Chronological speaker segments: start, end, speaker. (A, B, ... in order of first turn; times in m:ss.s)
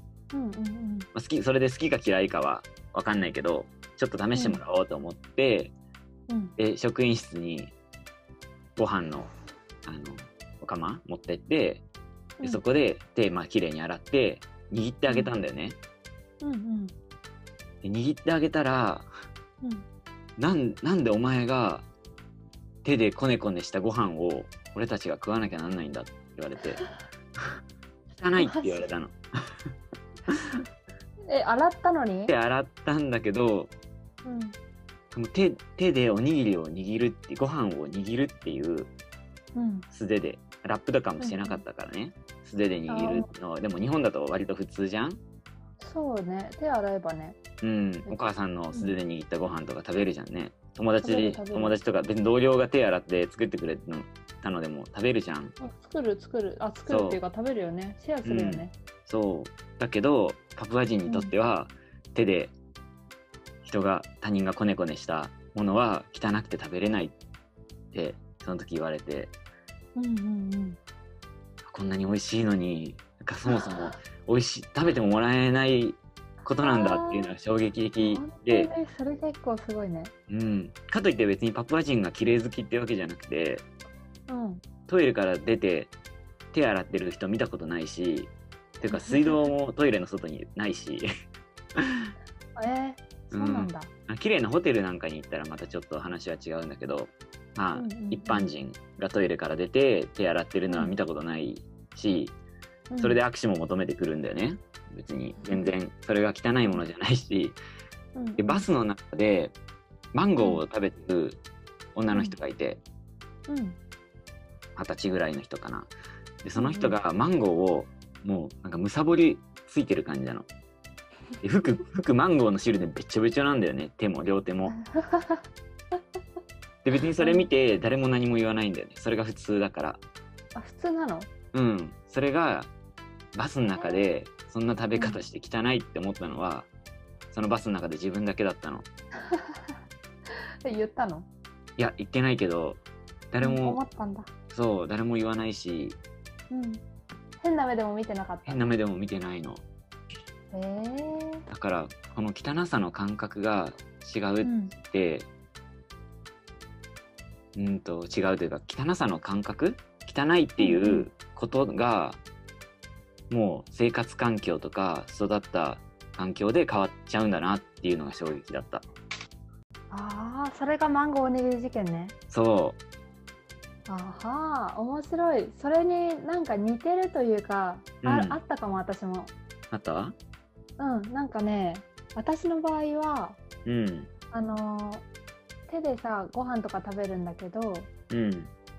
0:00.3-0:01.1 A
0:01.1-0:05.7 B
0:04.4-0:04.6 A
0:06.3-0:06.6 A
0:06.6-0:07.7 B
0:08.8-0:09.3 B
0:09.8-0:11.8 B
0:12.4-0:15.8 B
0:16.4-0:17.0 A
0:17.8-0:19.1 B
0:20.4-0:21.9 B
0:22.8-0:26.8 B
0:28.2-0:29.2 B
0:28.4-0:28.8 A
0:30.3-0:30.6 B
0:31.3-0:32.3 A
0:32.3-0:33.7 B
0:34.2-0:34.6 A
0:35.1-0:38.9 B
0:39.6-0:39.9 A
0:39.9-0:45.2 B
0:41.2-0:41.6 A
0:42.9-0:43.3 A
0:45.8-0:47.4 A
0:47.6-0:55.6 B
0:51.0-0:51.8 A
0:55.6-0:58.7 A
0:56.9-0:57.2 B
0:58.2-1:02.5 B
1:01.1-1:01.3 A
1:03.6-1:07.2 B
1:07.9-1:09.3 B
1:10.0-1:10.8 A
1:11.7-1:18.7 B
1:13.5-1:13.9 A
1:16.6-1:17.3 A
1:18.0-1:20.1 A
1:20.3-1:23.7 B
1:24.3-1:24.6 A
1:24.9-1:25.9 B
1:26.5-1:31.1 B
1:28.9-1:29.5 A
1:31.8-1:32.1 B
1:32.6-1:33.9 A
1:33.3-1:42.4 B
1:37.8-1:38.5 A
1:42.9-1:43.2 A
1:43.0-1:47.6 B
1:45.4-1:45.7 A
1:48.2-1:48.7 A
1:48.4-1:49.6 B
1:50.1-1:51.4 B
1:52.0-1:52.8 B
1:53.5-1:53.8 A
1:54.8-1:55.9 B
1:56.4-2:00.5 B
1:56.6-1:57.0 A
2:01.4-2:04.8 B
2:04.8-2:05.4 A
2:06.8-2:10.0 B
2:07.2-2:07.5 A
2:10.6-2:11.3 A
2:11.5-2:12.7 B
2:13.4-2:16.7 B
2:13.8-2:14.1 A
2:17.3-2:18.9 B
2:19.2-2:19.8 A
2:20.6-2:21.3 A
2:21.8-2:22.8 B
2:23.3-2:23.8 B
2:23.4-2:24.3 A
2:24.5-2:26.0 B
2:26.5-2:26.8 A
2:27.4-2:28.6 A
2:28.5-2:29.6 B
2:30.5-2:31.5 A
2:31.5-2:35.3 B
2:34.4-2:34.7 A
2:37.6-2:42.2 B
2:40.6-2:41.1 A
2:43.3-2:48.8 B
2:49.9-2:52.2 A
2:52.3-2:52.8 B
2:53.9-2:59.3 A
2:58.0-2:58.4 B
2:59.7-3:00.2 B
3:00.8-3:03.4 A
3:03.6-3:04.1 B
3:04.3-3:05.0 A
3:05.7-3:07.9 A
3:08.1-3:08.5 B